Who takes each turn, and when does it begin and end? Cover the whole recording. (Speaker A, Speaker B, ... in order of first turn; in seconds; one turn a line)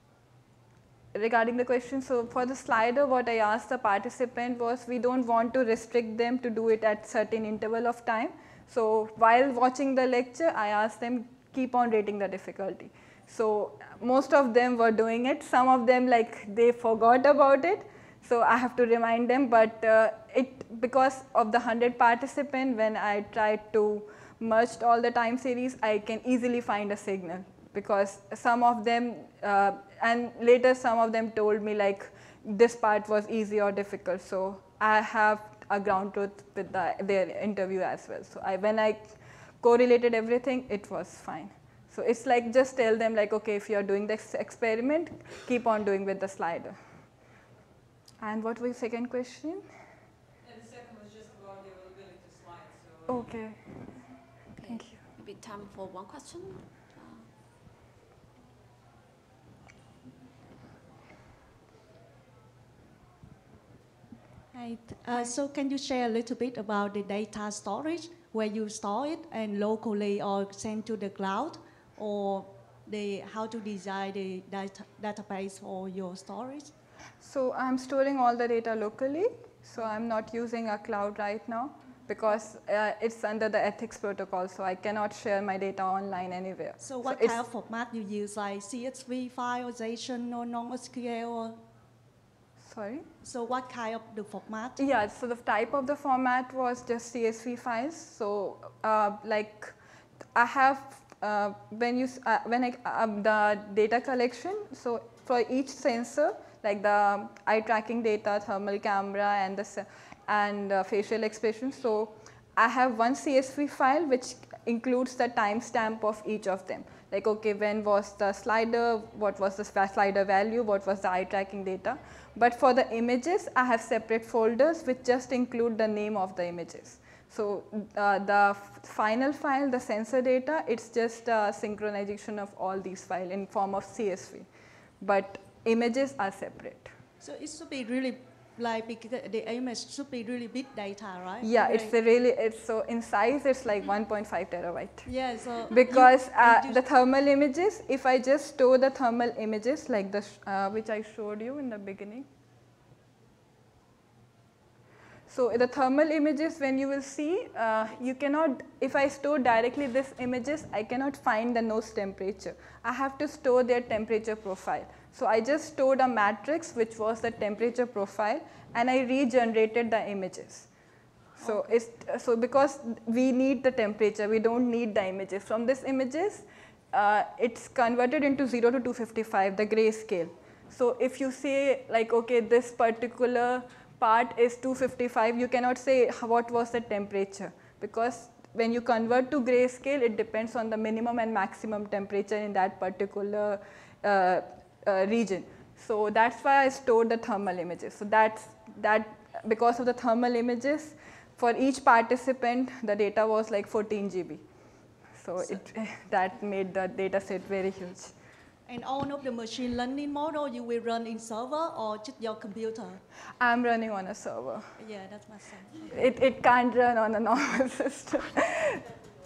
Speaker A: 1.1-46.8
Speaker A: 48.2-49.6
Speaker B: 50.4-53.2
Speaker A: 53.1-53.6
Speaker C: 54.6-57.2
Speaker A: 54.7-55.0
Speaker D: 64.5-76.7
Speaker A: 77.2-87.4
Speaker D: 86.8-91.6
Speaker A: 92.6-93.0
Speaker D: 93.2-94.8
Speaker A: 94.8-99.8
Speaker A: 100.3-134.5
Speaker A: 135.0-136.9
Speaker D: 137.2-141.9
Speaker A: 141.4-145.1
Speaker D: 145.0-146.8
Speaker A: 145.7-152.3
Speaker A: 155.3-170.7
Speaker D: 171.4-171.8
Speaker A: 171.4-204.4
Speaker A: 205.2-208.1
Speaker D: 205.4-205.7
Speaker D: 208.7-213.0
Speaker A: 213.4-214.7
Speaker D: 214.8-216.1
Speaker A: 215.9-218.8